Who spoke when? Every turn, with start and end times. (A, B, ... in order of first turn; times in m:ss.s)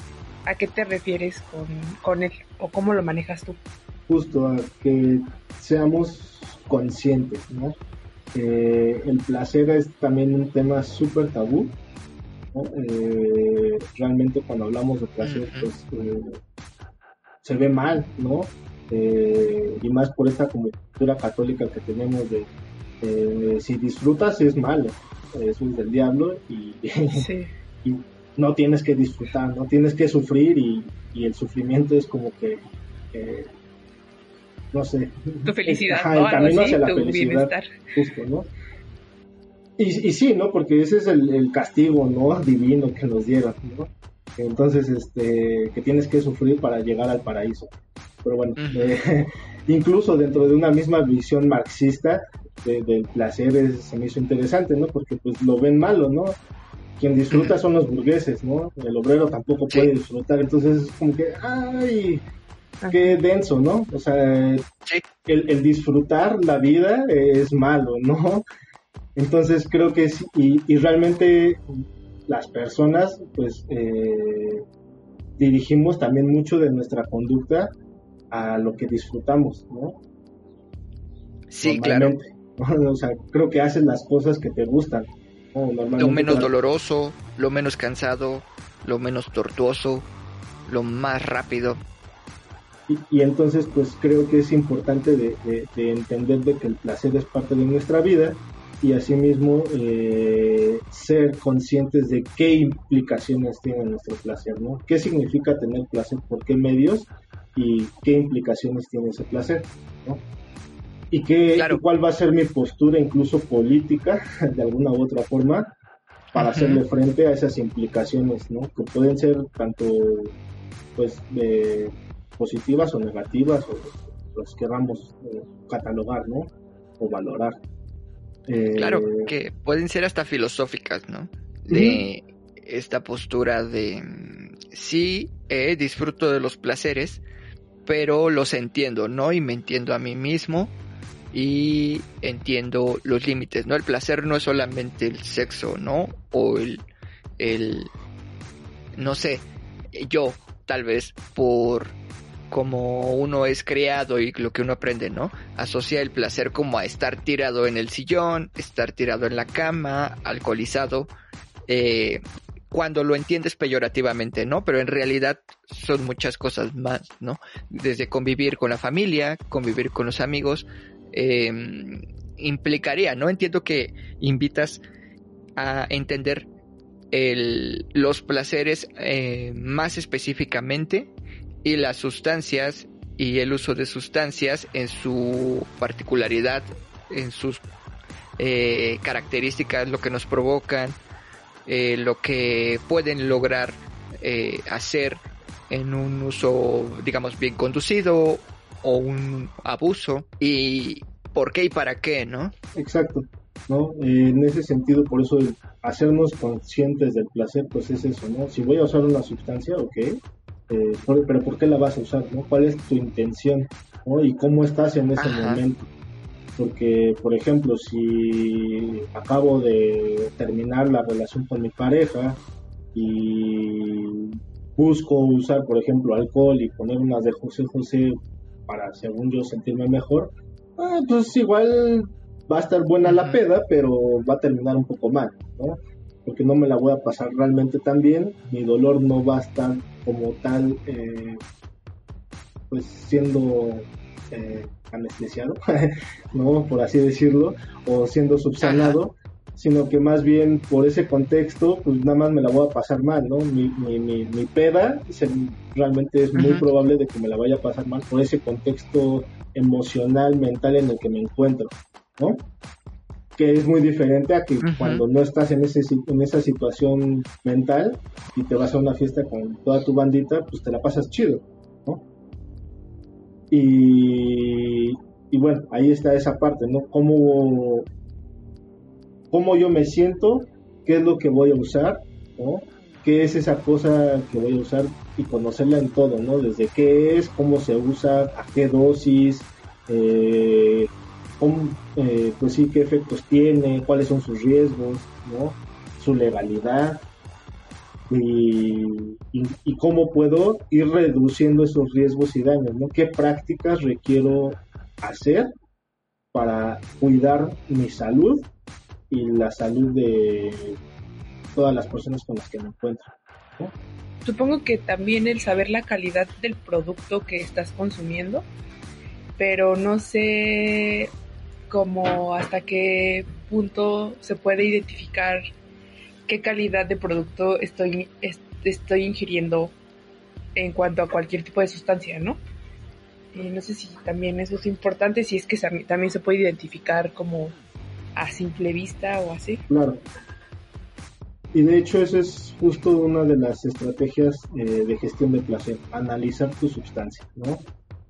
0:00.5-0:03.6 A
0:04.1-0:07.8 B
0:08.3-0:11.8 B
0:12.5-0:16.4 B
0:15.2-0:15.7 C
0:17.4-0:22.5 B
0:23.0-0:27.3 B
0:27.1-0:27.5 A
0:27.8-0:32.6 B
0:33.1-0:33.5 B
0:34.7-0:38.5 B
0:35.5-0:37.7 A
0:39.8-0:47.7 B
0:48.2-0:56.4 B
0:48.6-0:49.0 C
0:57.0-1:02.2 B
0:57.3-0:57.6 C
0:59.7-1:00.0 C
1:02.8-1:03.2 A
1:02.9-1:04.7 B
1:05.3-1:08.4 B
1:09.2-1:14.6 B
1:15.4-1:17.7 B
1:18.3-1:20.0 B
1:21.5-1:22.2 C
1:21.6-1:26.5 B
1:26.0-1:30.1 C
1:30.7-1:31.8 C
1:32.9-1:50.2 B
1:51.1-1:55.7 B
1:51.6-1:51.8 C
1:56.3-1:56.8 C
1:56.4-2:00.4 B
2:01.0-2:07.6 B
2:08.5-2:09.3 B
2:08.8-2:17.2 C
2:11.7-2:12.0 B
2:17.9-2:20.7 C
2:21.3-2:26.8 C
2:27.4-2:27.9 C
2:29.0-2:32.0 C
2:32.5-2:41.1 C
2:41.7-2:54.8 C
2:55.6-2:56.5 C
2:57.1-3:01.1 C
3:01.6-3:07.6 C
3:08.4-3:11.0 C
3:11.7-3:22.5 C
3:22.8-3:30.2 B
3:30.7-3:35.9 B
3:35.2-3:35.6 C
3:36.6-3:42.4 B
3:42.9-4:01.4 B
3:53.0-3:53.4 C
4:02.7-4:22.4 B
4:08.6-4:09.0 C
4:16.4-4:16.6 C
4:23.4-4:32.0 B
4:24.6-4:25.0 C
4:33.5-4:37.9 B
4:39.3-4:57.0 B
4:58.1-5:05.5 B
5:06.3-5:08.5 B
5:09.1-5:10.8 B
5:11.5-5:13.7 B
5:14.2-5:18.5 A
5:19.4-5:21.1 A
5:21.7-5:25.5 A
5:26.3-5:29.7 A
5:30.6-5:32.4 A
5:33.3-5:37.6 A
5:38.2-5:39.6 A
5:39.7-5:40.0 B
5:41.5-5:47.6 B